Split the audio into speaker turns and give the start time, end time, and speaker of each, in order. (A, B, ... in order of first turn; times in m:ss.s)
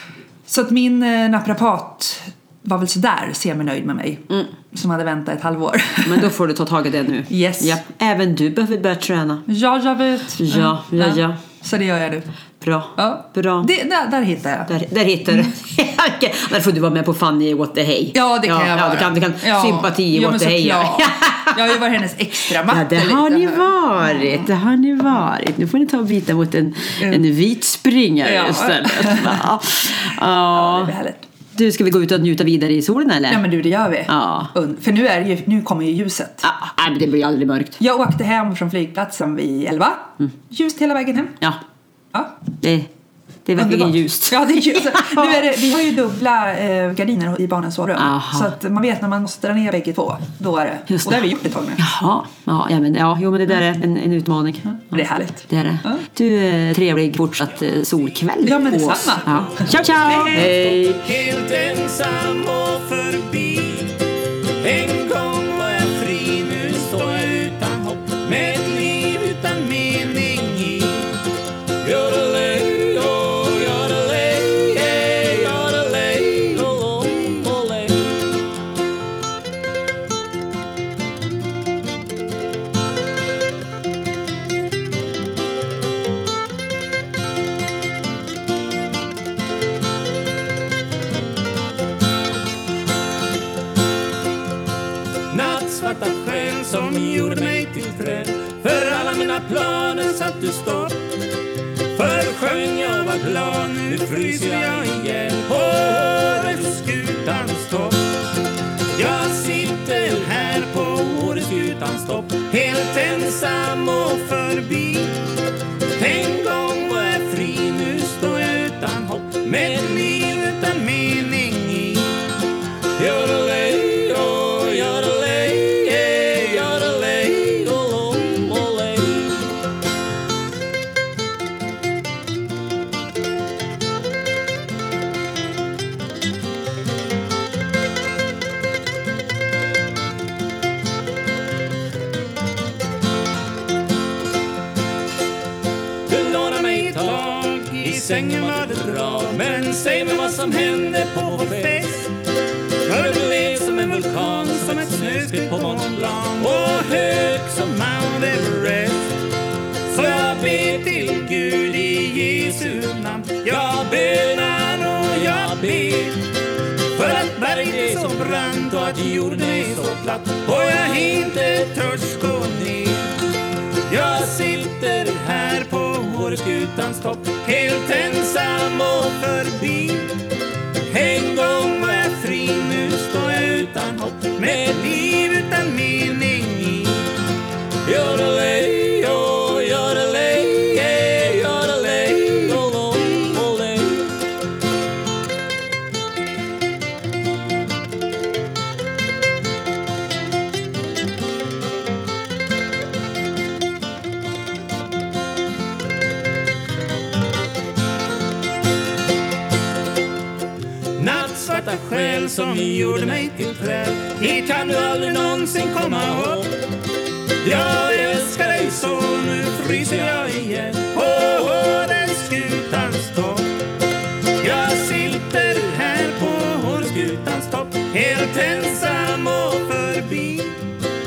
0:00.5-0:06.3 A
0:06.0-0:09.5 B
0:07.3-0:07.8 A
0:09.5-0:12.3 A
0:10.4-0:11.4 B
0:12.6-0:13.7 B
0:13.0-0:14.7 A
0:14.7-0:21.7 B
0:18.1-0:24.5 A
0:22.6-0:31.0 B
0:28.2-0:31.3 A
0:31.5-0:33.4 B
0:33.3-0:36.5 A
0:34.1-0:34.5 B
0:36.4-0:37.8 B
0:37.8-0:41.4 A
0:42.6-0:42.9 B
0:43.5-0:45.3 B
0:43.6-0:51.8 A
0:48.0-0:48.5 B
0:50.9-0:51.2 B
0:51.8-1:01.0 B
0:54.8-0:56.0 A
0:58.4-1:00.5 A
1:00.4-1:04.0 C
1:04.6-1:11.2 C
1:11.8-1:18.4 C
1:35.3-1:41.1 C
1:41.9-1:48.2 C
1:48.9-1:55.4 C
1:55.9-2:02.3 C
2:03.0-2:09.6 C
2:26.1-2:32.2 C
2:32.8-2:39.3 C
2:39.9-2:46.3 C
2:46.9-2:53.3 C
2:53.9-3:00.2 C
3:00.9-3:07.2 C
3:07.8-3:14.2 C
3:31.0-3:36.6 C
3:37.4-3:43.5 C
3:44.4-3:50.7 C